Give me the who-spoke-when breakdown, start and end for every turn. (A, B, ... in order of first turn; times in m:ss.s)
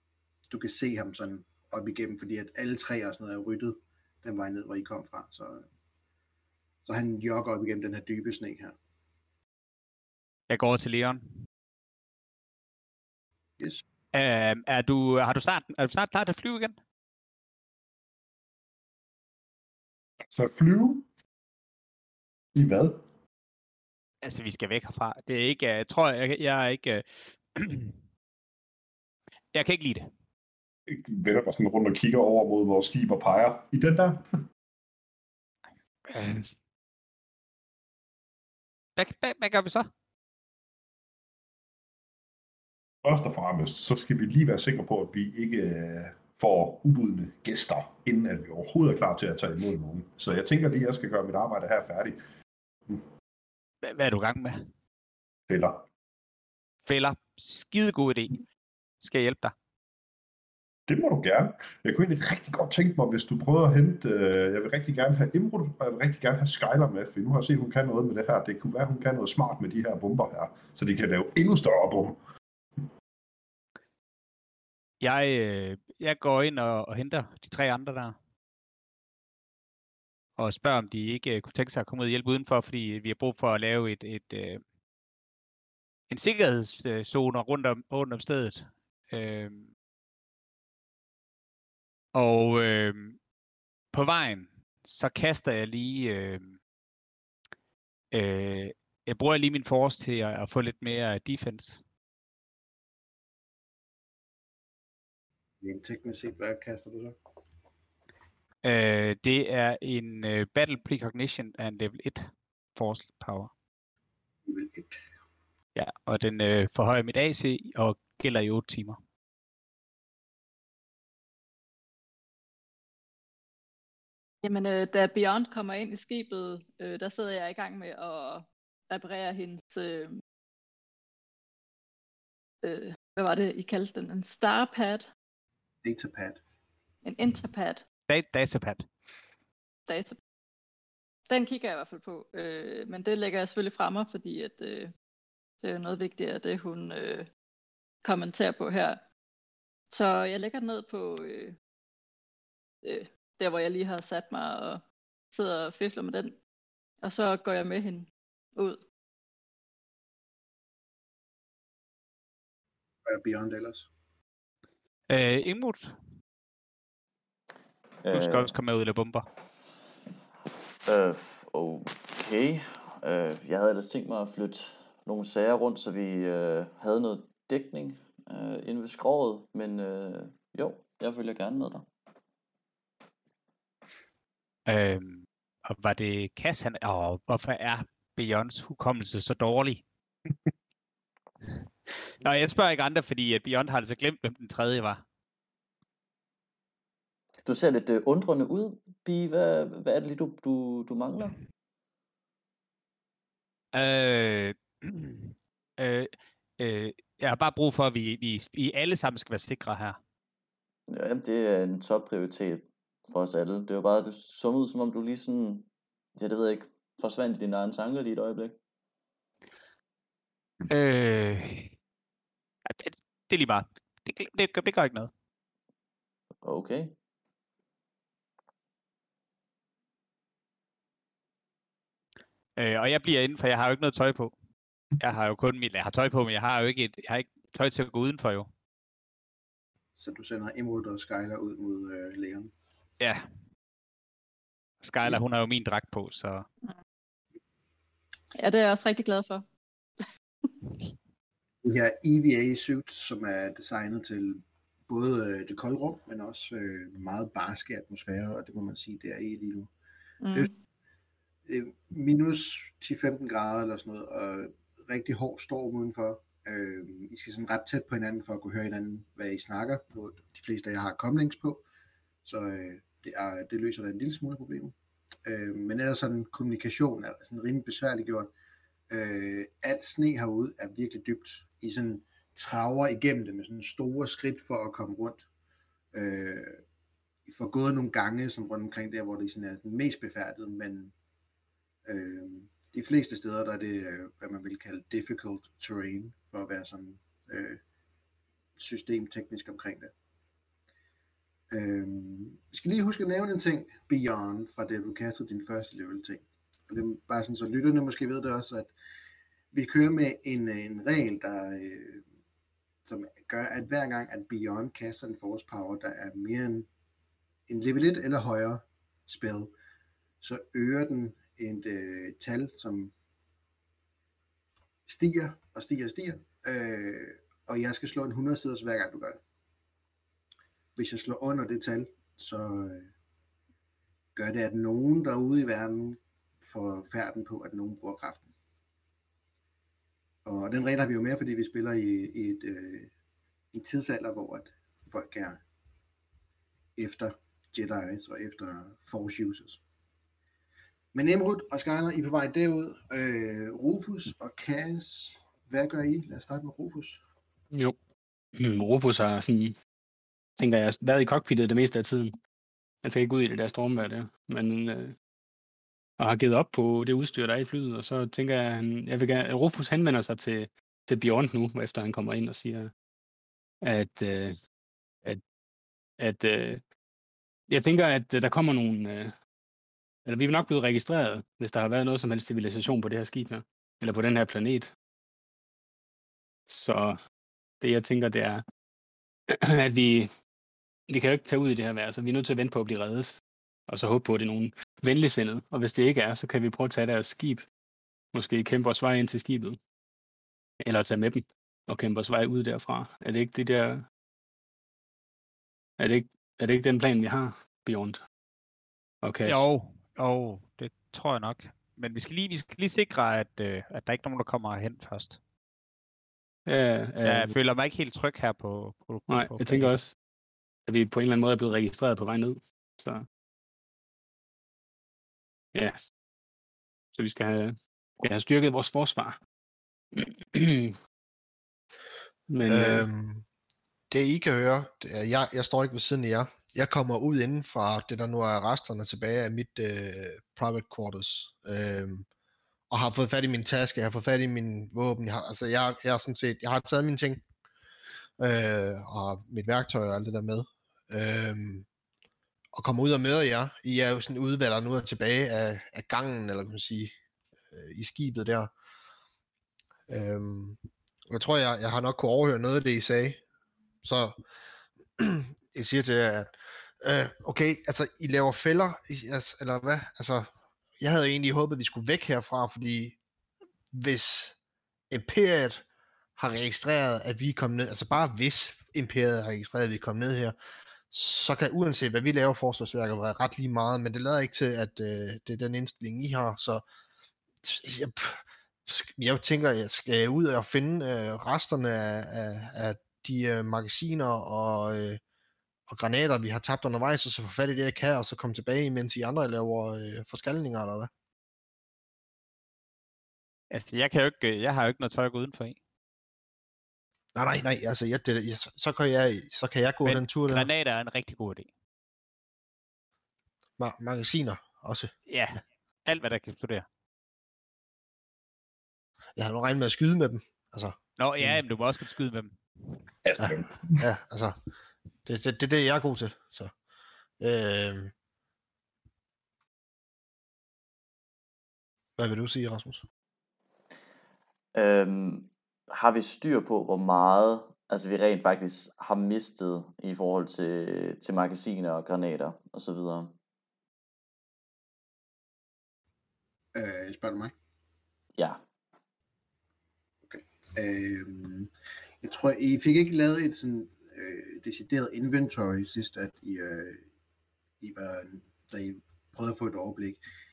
0:00.5-0:05.7 A
0:06.8-0:08.8 A
0:10.5-0:11.2 B
0:13.6-0:13.8 A
0:14.1-0:16.8 B
0:20.3-0:21.1 C
0:22.6-0:23.0 C
0:24.2-0:27.9 B
0:29.5-0:30.1 B
0:30.9-0:34.2 C
0:36.1-0:36.5 B
0:39.0-0:39.9 B
0:43.0-0:52.2 C
0:53.8-0:54.6 B
0:55.5-0:55.8 C
0:56.9-0:58.4 B
0:59.0-0:59.5 B
1:00.9-1:12.2 C
1:15.0-1:18.2 B
1:20.4-1:24.6 B
1:26.1-1:29.7 B
1:32.1-1:33.2 B
1:33.9-1:36.6 B
1:38.1-1:41.8 B
1:45.6-1:47.2 A
1:48.6-1:53.5 B
1:54.4-1:55.0 A
1:55.8-1:59.0 B
2:04.4-2:10.2 D
2:12.6-2:15.1 D
2:15.8-2:16.4 A
2:17.0-2:17.8 D
2:18.1-2:18.9 B
2:19.9-2:20.2 D
2:21.3-2:24.9 D
2:25.6-2:27.3 D
2:28.0-2:29.0 D
2:29.9-2:31.6 D
2:32.8-2:36.4 D
2:37.0-2:38.8 D
2:43.1-2:43.9 A
2:45.1-2:46.0 B
2:48.0-2:48.5 E
2:48.1-2:49.2 B
2:50.9-3:01.9 E
3:04.7-3:09.8 B
3:12.2-3:15.0 B
3:17.4-3:21.4 E
3:23.7-3:30.0 B
3:30.9-3:38.6 E
3:40.7-3:41.7 B
3:42.7-3:45.1 B
3:46.4-3:46.9 E
3:52.6-3:54.3 B
3:55.0-3:58.5 B
4:00.0-4:02.5 A
4:03.0-4:03.3 B
4:04.8-4:06.5 B
4:08.4-4:09.4 D
4:11.6-4:19.7 A
4:20.2-4:20.5 D
4:21.5-4:31.6 A
4:32.2-4:38.3 A
4:38.9-4:45.2 A
4:45.9-4:46.6 A
4:47.3-4:50.9 A
4:51.9-4:57.6 A
4:58.6-4:59.9 A
5:01.5-5:08.7 A
5:09.5-5:12.0 A
5:12.8-5:16.7 A
5:17.5-5:19.5 A
5:20.2-5:22.9 A
5:24.9-5:29.2 A
5:30.8-5:32.9 A
5:34.2-5:38.3 A
5:40.2-5:42.9 A
5:43.5-5:45.4 A
5:46.8-5:49.6 A
5:50.9-5:57.0 A
5:58.4-5:59.6 F
6:00.4-6:02.2 F
6:02.8-6:04.9 F
6:06.0-6:12.7 F
6:13.6-6:14.4 F
6:16.0-6:16.6 F
6:17.5-6:19.1 F
6:20.1-6:24.7 F
6:26.5-6:27.0 F
6:27.6-6:28.4 F
6:29.3-6:30.1 F
6:30.9-6:33.2 F
6:33.7-6:37.5 F
6:38.1-6:39.6 F
6:40.6-6:43.8 F
6:45.8-6:48.0 F
6:49.0-6:49.4 F
6:49.3-6:55.2 B
6:56.5-6:57.4 F
6:57.0-6:59.7 B
6:59.1-6:59.9 F
7:00.7-7:03.1 F
7:05.6-7:05.8 F
7:07.0-7:09.2 F
7:09.9-7:10.8 F
7:12.3-7:12.9 F
7:12.5-7:13.2 G
7:13.9-7:22.1 G
7:22.7-7:27.2 G
7:28.2-7:31.7 G
7:32.5-7:36.9 G
7:37.5-7:38.5 G
7:39.9-7:43.2 G
7:43.8-7:44.2 G
7:45.0-7:53.0 G
7:53.7-7:54.4 G
7:54.9-7:55.6 G
7:56.2-8:00.4 G
8:00.9-8:06.6 G
8:07.4-8:15.0 G
8:15.7-8:20.9 G
8:23.5-8:25.6 B
8:27.2-8:30.5 G
8:29.8-8:31.5 B
8:33.6-8:34.9 G
8:35.1-8:36.7 B
8:39.2-8:41.4 G
8:41.0-8:42.4 B
8:43.0-8:43.8 C
8:43.2-8:44.4 G
8:45.1-8:46.5 G
8:47.2-8:47.9 G
8:52.0-8:52.8 G
8:54.6-9:03.2 E
9:06.5-9:07.3 A
9:08.2-9:08.4 E
9:10.1-9:11.5 A
9:12.0-9:16.8 A
9:17.6-9:20.0 A